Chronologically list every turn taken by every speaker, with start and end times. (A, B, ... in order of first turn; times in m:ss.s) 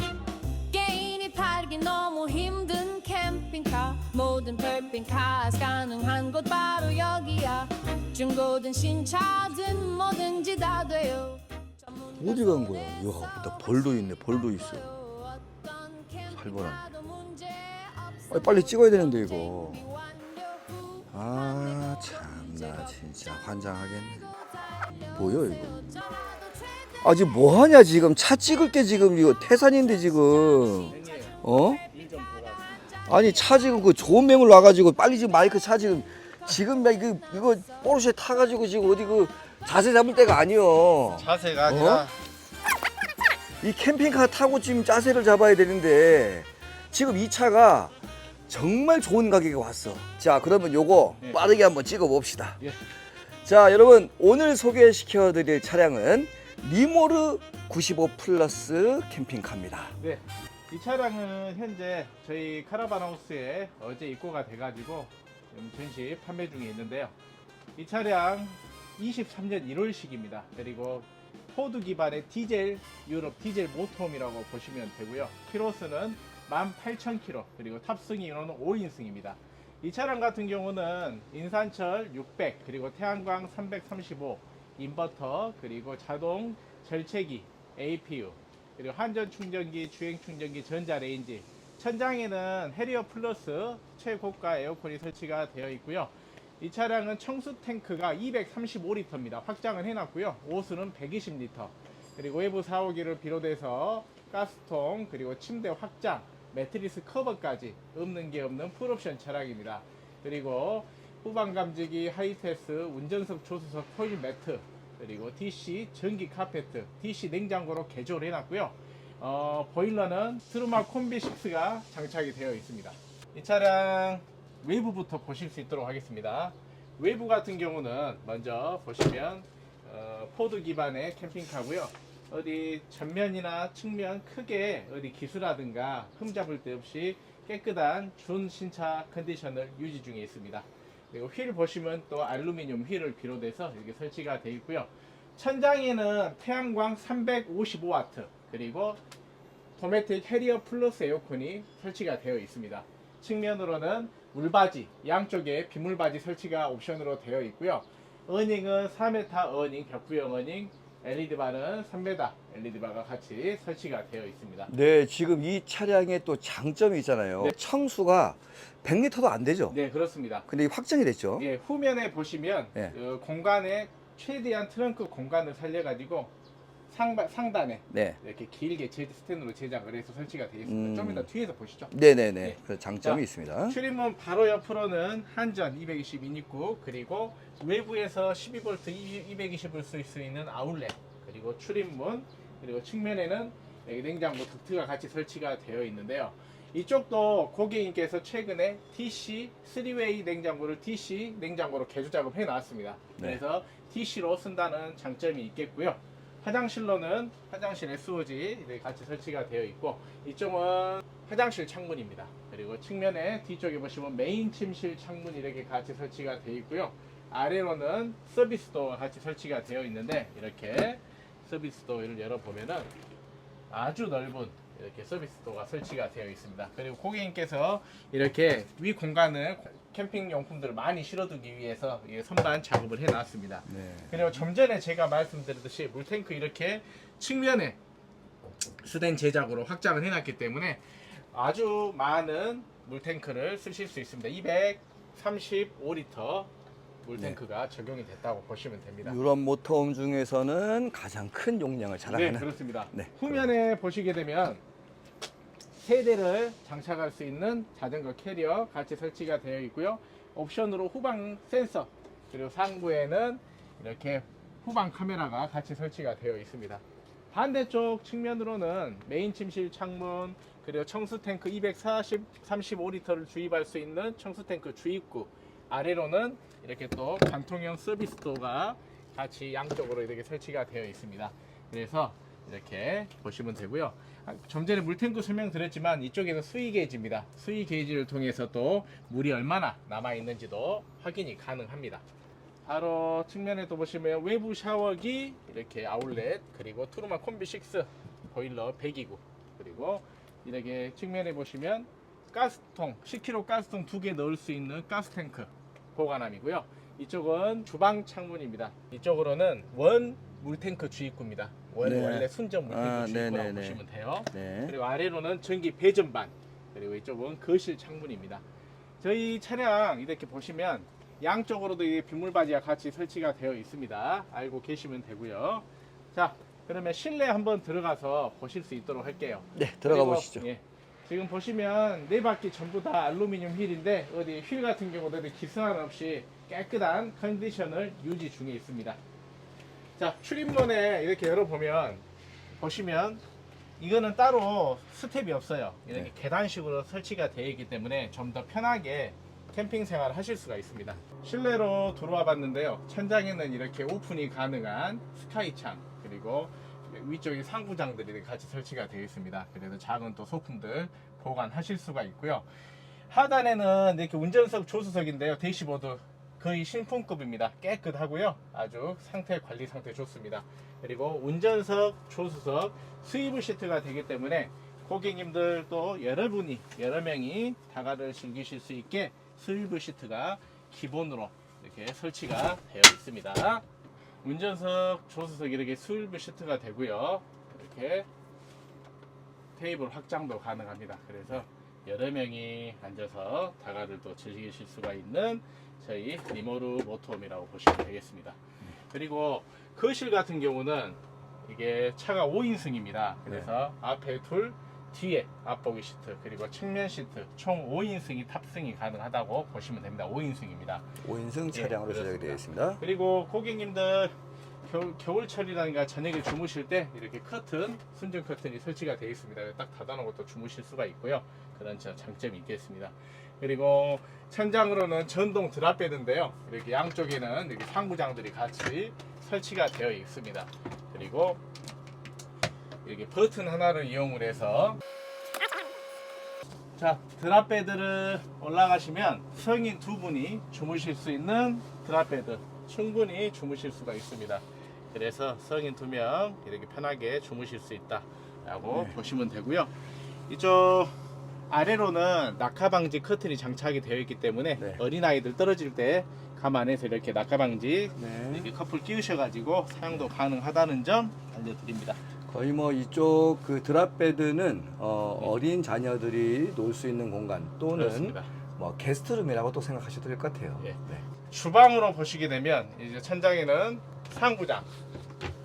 0:00.7-0:23.6 A
0:12.2-0:14.9 B
0:16.3-0:16.8 B
0:18.3-0:19.8 B
0:21.1-0:24.3 B
0:24.1-0:27.5 A
0:25.1-0:25.8 B
0:27.0-0:31.8 B
0:29.0-0:34.1 A
0:30.9-0:33.0 C
0:33.1-0:42.1 B
0:36.8-0:38.1 A
0:41.1-0:42.2 C
0:43.6-0:47.9 B
0:48.5-0:52.6 B
0:51.2-0:51.6 C
0:53.4-1:00.0 B
1:00.0-1:07.1 C
1:07.7-2:29.0 C
2:29.8-2:44.7 C
2:44.7-2:49.8 B
2:49.7-2:50.5 C
2:50.5-2:51.5 B
2:51.4-2:56.3 C
2:56.9-3:42.9 C
2:57.9-2:58.2 B
3:00.7-3:01.3 B
3:01.9-3:03.8 B
3:43.7-3:57.8 C
3:53.7-3:54.4 B
3:58.8-4:06.5 C
4:07.0-4:09.2 C
4:09.0-4:13.4 B
4:12.1-4:14.6 C
4:15.8-4:52.0 C
4:52.6-5:18.4 C
5:11.8-5:13.8 B
5:14.3-5:14.8 B
5:19.0-5:39.0 C
5:29.6-5:30.4 B
5:40.0-5:42.0 C
5:42.6-5:43.2 C
5:43.8-6:02.4 C
6:03.1-6:23.6 C
6:24.2-6:28.1 C
6:29.6-6:50.9 C
6:51.0-6:52.8 B
6:51.5-6:54.1 C
6:54.6-7:11.4 C
7:12.8-7:14.8 C
7:16.8-7:29.7 C
7:30.3-7:30.9 C
7:31.5-7:42.0 C
7:38.0-7:38.5 B
7:42.3-7:50.7 B
7:47.7-7:48.3 C
7:50.6-7:54.7 C